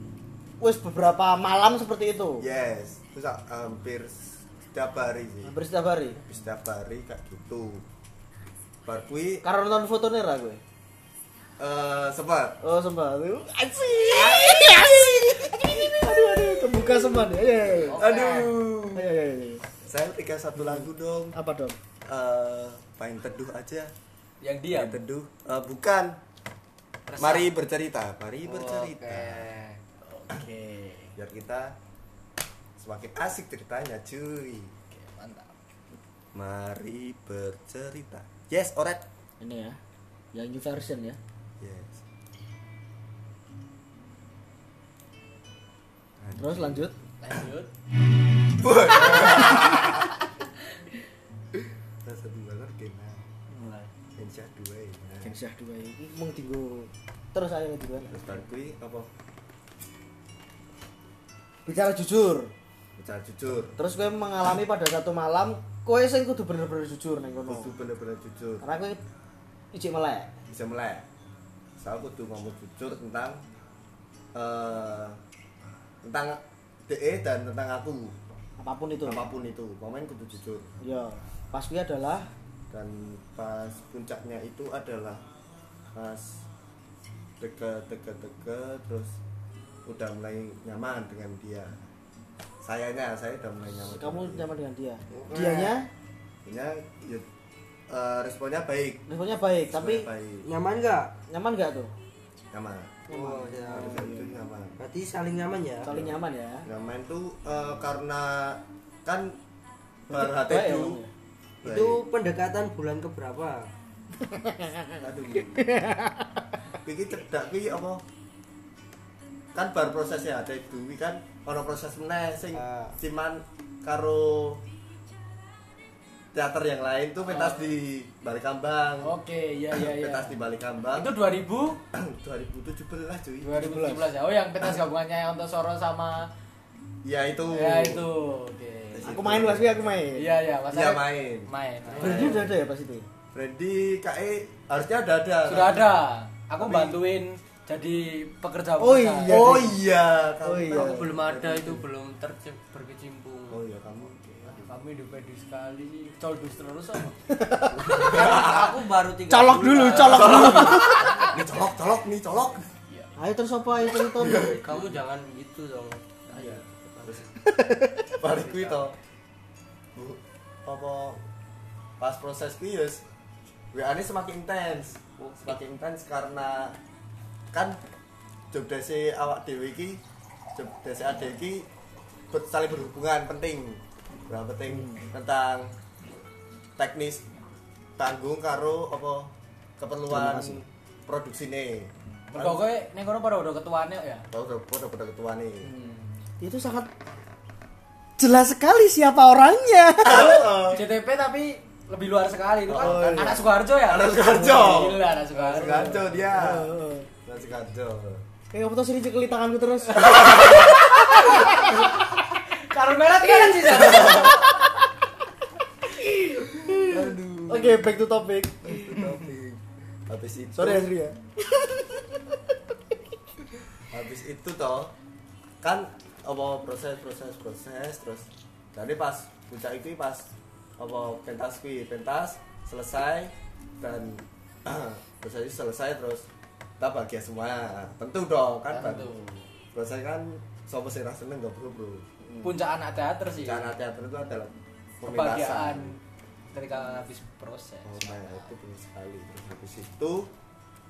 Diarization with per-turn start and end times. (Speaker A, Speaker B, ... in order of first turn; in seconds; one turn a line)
Speaker A: 0.6-2.5
Speaker B: 2.4-5.5
Speaker A: 5.5-6.2
Speaker B: 6.2-7.8
Speaker B: 8.8-9.4
Speaker A: 9.4-10.6
Speaker B: 11.6-12.6
Speaker A: 12.6-18.0
Speaker B: 14.1-14.9
Speaker C: 17.7-18.5
Speaker B: 17.9-19.1
Speaker D: 18.0-18.2
Speaker A: 18.9-19.6
Speaker B: 19.9-21.4
Speaker A: 21.3-21.8
Speaker B: 22.1-23.9
Speaker D: 24.4-25.0
Speaker B: 24.7-26.2
Speaker D: 27.1-27.5
Speaker B: 27.2-29.5
Speaker C: 28.5-29.8
Speaker D: 30.0-31.2
Speaker B: 31.2-31.8
Speaker B: 32.8-34.8
Speaker D: 34.9-35.5
Speaker B: 36.3-39.0
Speaker A: 39.4-39.8
Speaker A: 40.3-41.2
Speaker B: 41.6-42.0
Speaker B: 46.2-46.9
Speaker A: 46.3-47.0
Speaker D: 47.2-47.7
Speaker B: 48.5-50.1
Speaker D: 48.9-50.0
Speaker B: 51.6-53.3
Speaker B: 54.2-55.3
Speaker A: 55.2-58.3
Speaker B: 58.1-59.1
Speaker A: 61.7-62.5
Speaker B: 63.0-63.8
Speaker A: 63.7-67.7
Speaker B: 67.5-68.6
Speaker A: 68.6-69.0
Speaker A: 69.7-70.3
Speaker B: 70.5-71.0
Speaker B: 71.8-73.4
Speaker B: 74.3-75.2
Speaker B: 76.0-78.2
Speaker A: 78.6-79.2
Speaker B: 79.0-80.7
Speaker A: 80.8-82.3
Speaker B: 82.7-85.3
Speaker B: 85.9-86.5
Speaker B: 87.4-89.2
Speaker B: 89.9-91.8
Speaker B: 92.6-94.5
Speaker A: 93.8-95.9
Speaker B: 95.1-95.7
Speaker B: 96.5-97.2
Speaker B: 97.9-99.0
Speaker A: 99.1-100.1
Speaker B: 99.7-100.5
Speaker C: 100.4-101.1
Speaker A: 101.3-101.9
Speaker B: 102.5-103.1
Speaker C: 103.1-104.2
Speaker A: 103.1-104.1
Speaker B: 103.7-104.8
Speaker C: 104.8-105.9
Speaker A: 105.8-106.7
Speaker B: 105.9-109.4
Speaker A: 110.1-111.1
Speaker B: 110.1-111.0
Speaker B: 111.6-112.0
Speaker C: 111.6-113.7
Speaker A: 114.3-116.3
Speaker B: 115.0-115.7
Speaker B: 116.8-118.0
Speaker B: 119.5-124.6
Speaker C: 122.5-123.0
Speaker B: 126.3-129.2
Speaker D: 127.3-127.7
Speaker D: 129.0-130.3
Speaker B: 129.7-131.1
Speaker D: 130.9-131.8
Speaker B: 131.9-133.7
Speaker D: 133.4-136.3
Speaker A: 133.6-134.1
Speaker B: 137.0-138.1
Speaker D: 137.5-139.3
Speaker B: 138.9-140.0
Speaker A: 139.1-140.4
Speaker D: 140.1-142.4
Speaker B: 140.7-142.5
Speaker C: 141.8-142.3
Speaker A: 142.0-143.1
Speaker B: 143.3-146.0
Speaker D: 145.4-149.4
Speaker B: 146.6-147.0
Speaker A: 148.8-149.8
Speaker B: 149.2-151.9
Speaker A: 150.4-151.1
Speaker C: 150.7-153.6
Speaker B: 153.5-154.7
Speaker D: 154.4-157.2
Speaker A: 157.3-158.1
Speaker B: 157.8-158.8
Speaker C: 158.0-160.8
Speaker A: 159.3-161.1
Speaker D: 159.9-161.3
Speaker B: 160.0-162.7
Speaker A: 163.2-164.6
Speaker B: 164.0-164.9
Speaker C: 164.4-167.3
Speaker D: 166.3-166.6
Speaker B: 166.4-167.2
Speaker A: 167.4-168.1
Speaker B: 168.2-168.9
Speaker C: 168.2-168.8
Speaker B: 169.9-171.2
Speaker B: 172.0-173.0
Speaker B: 173.7-176.8
Speaker B: 177.5-177.8
Speaker B: 178.5-180.0
Speaker B: 180.6-181.7
Speaker B: 182.3-185.8
Speaker B: 186.8-187.3
Speaker B: 188.0-192.7
Speaker A: 190.1-190.6
Speaker D: 192.3-194.3
Speaker B: 194.3-195.7
Speaker A: 195.7-196.9
Speaker D: 195.7-196.2
Speaker A: 198.2-200.4
Speaker B: 200.1-200.8
Speaker D: 200.1-206.3
Speaker B: 202.7-206.7
Speaker A: 202.8-203.2
Speaker A: 205.7-207.1
Speaker B: 207.2-208.2
Speaker A: 208.5-211.7
Speaker B: 209.9-210.8
Speaker D: 211.2-211.8
Speaker D: 212.7-214.5
Speaker B: 213.7-214.4
Speaker A: 213.9-214.7
Speaker A: 216.0-218.9
Speaker B: 216.5-218.0
Speaker B: 218.6-220.9
Speaker A: 220.6-221.2
Speaker B: 223.9-224.9
Speaker B: 225.6-236.3
Speaker B: 236.8-239.2
Speaker D: 238.7-239.4
Speaker B: 239.7-242.1
Speaker D: 242.4-243.8
Speaker B: 243.4-246.0
Speaker D: 245.1-246.0
Speaker D: 246.5-248.5
Speaker B: 247.8-250.3